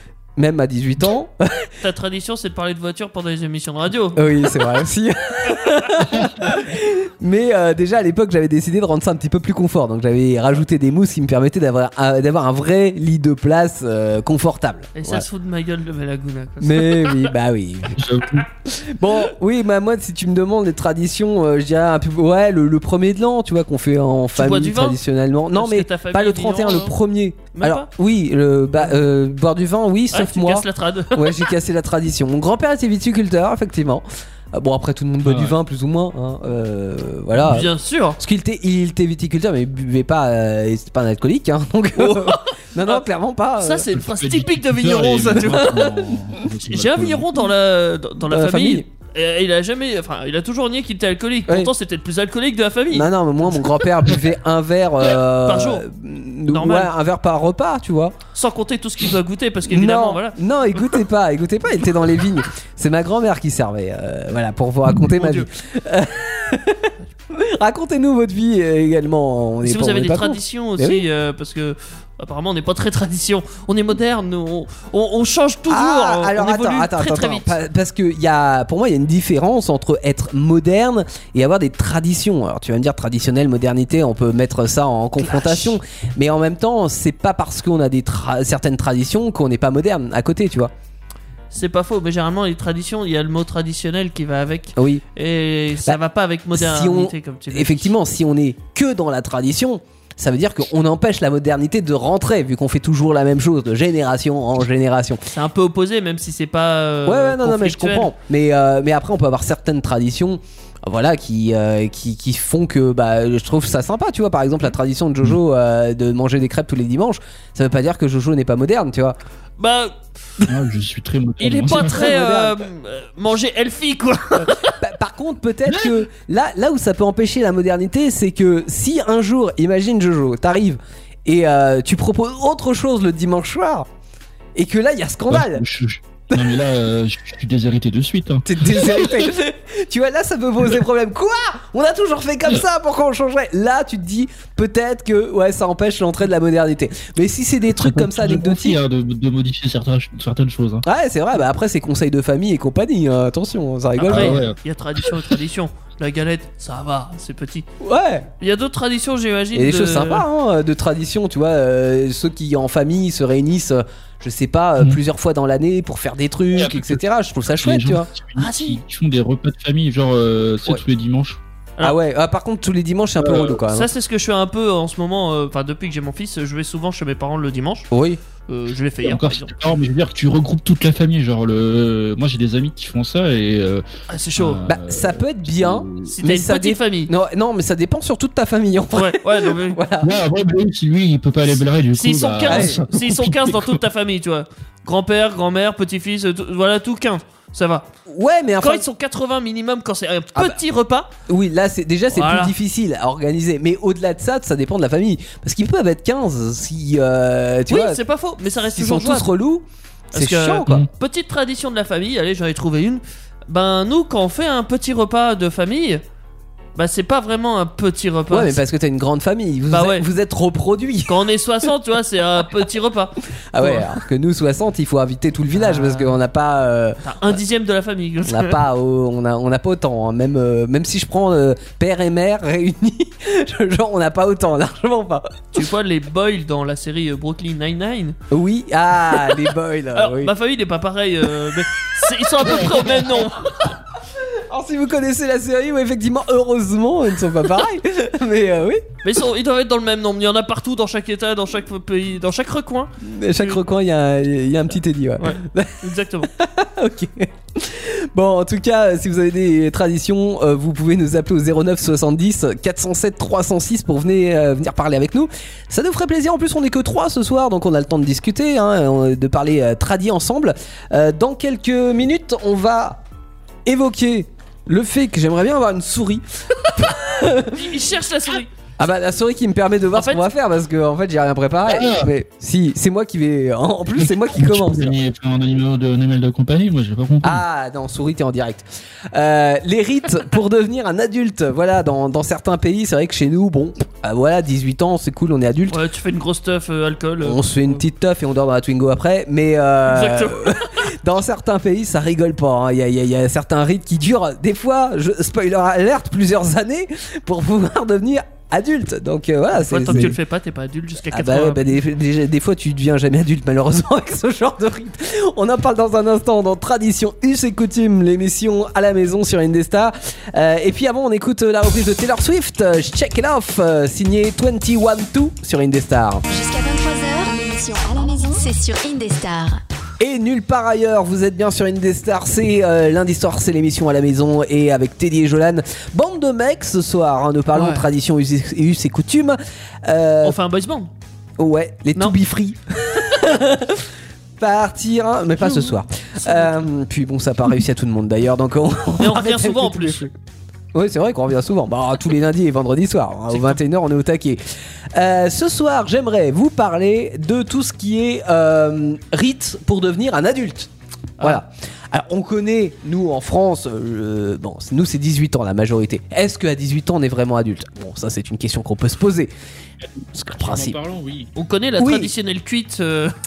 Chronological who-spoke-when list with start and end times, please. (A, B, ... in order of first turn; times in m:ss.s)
0:00.4-0:01.7 A
0:01.8-0:04.8 B
0:04.2-0:15.2 A
0:05.8-0:06.1 B
0:15.0-0:17.3 B
0:16.6-0:18.0 A
0:18.0-0:18.5 C
0:18.5-0:43.9 A
0:24.4-0:25.0 B
0:25.5-0:27.0 B
0:27.5-0:27.9 B
0:30.1-0:31.5 B
0:35.2-0:35.6 C
0:37.4-0:38.2 B
0:42.0-0:43.1 B
0:43.6-0:46.0 B
0:43.9-0:47.3 C
0:45.6-0:45.9 A
0:46.6-0:54.2 B
0:48.2-0:48.9 A
0:52.9-0:58.2 A
0:55.1-0:55.9 B
0:56.5-0:56.9 B
0:58.4-1:01.0 B
0:59.7-1:11.0 A
1:05.1-1:05.5 B
1:09.6-1:17.6 B
1:15.7-1:30.7 A
1:25.2-1:25.8 B
1:31.5-1:37.9 B
1:34.8-1:35.0 A
1:36.5-1:45.3 A
1:45.3-1:48.1 B
1:47.1-1:59.2 A
1:59.6-2:00.0 B
2:00.5-2:02.1 C
2:01.4-2:04.9 B
2:01.6-2:02.6 A
2:04.5-2:13.9 A
2:14.6-2:15.6 A
2:15.3-2:19.3 C
2:16.3-2:16.6 A
2:18.5-2:28.8 A
2:27.8-2:30.8 C
2:30.8-2:34.4 A
2:34.0-2:37.7 B
2:34.1-2:35.3 C
2:37.8-2:38.3 A
2:38.4-2:40.2 B
2:39.5-2:48.1 A
2:46.5-2:51.4 C
2:48.4-2:48.8 B
2:51.8-2:53.9 A
2:53.3-2:57.9 B
2:57.9-2:58.2 A
2:58.5-2:59.6 B
2:59.0-3:03.8 C
3:04.1-3:04.6 B
3:04.4-3:06.2 C
3:04.7-3:10.1 A
3:06.1-3:07.1 B
3:09.0-3:09.8 B
3:10.0-3:13.8 C
3:12.0-3:17.9 B
3:12.5-3:12.8 A
3:18.1-3:18.9 A
3:18.6-3:21.1 B
3:21.3-3:28.0 A
3:22.1-3:22.6 B
3:27.7-3:29.3 B
3:28.6-3:30.8 A
3:30.1-3:36.0 B
3:36.8-3:38.6 B
3:38.3-3:41.2 A
3:39.7-3:40.1 B
3:41.1-3:43.9 B
3:43.3-3:47.4 A
3:45.5-3:46.2 B
3:47.0-3:48.6 B
3:48.3-3:55.4 A
3:55.5-3:58.2 B
3:58.3-4:00.3 A
3:59.2-4:03.7 B
4:04.3-4:08.9 A
4:09.0-4:13.6 B
4:13.0-4:33.0 A
4:15.2-4:16.3 B
4:33.7-4:37.8 A
4:37.5-4:38.5 B
4:38.8-4:44.9 A
4:39.9-4:40.2 B
4:41.7-4:42.1 C
4:43.9-4:47.4 C
4:47.2-4:55.8 A
4:55.7-4:57.8 B
4:57.2-5:10.2 A
4:59.9-5:00.9 B
5:09.5-5:11.8 B
5:11.1-5:26.2 A
5:26.3-5:29.6 D
5:30.0-5:40.4 A
5:37.5-5:37.9 B
5:40.2-5:40.9 B
5:41.4-5:50.1 A
5:45.4-5:46.6 B
5:49.0-5:50.1 B
5:50.7-5:54.4 A
5:53.3-5:53.6 B
5:54.9-6:09.3 A
6:10.0-6:11.3 C
6:10.1-6:10.8 A
6:11.4-6:13.1 B
6:11.8-6:12.1 A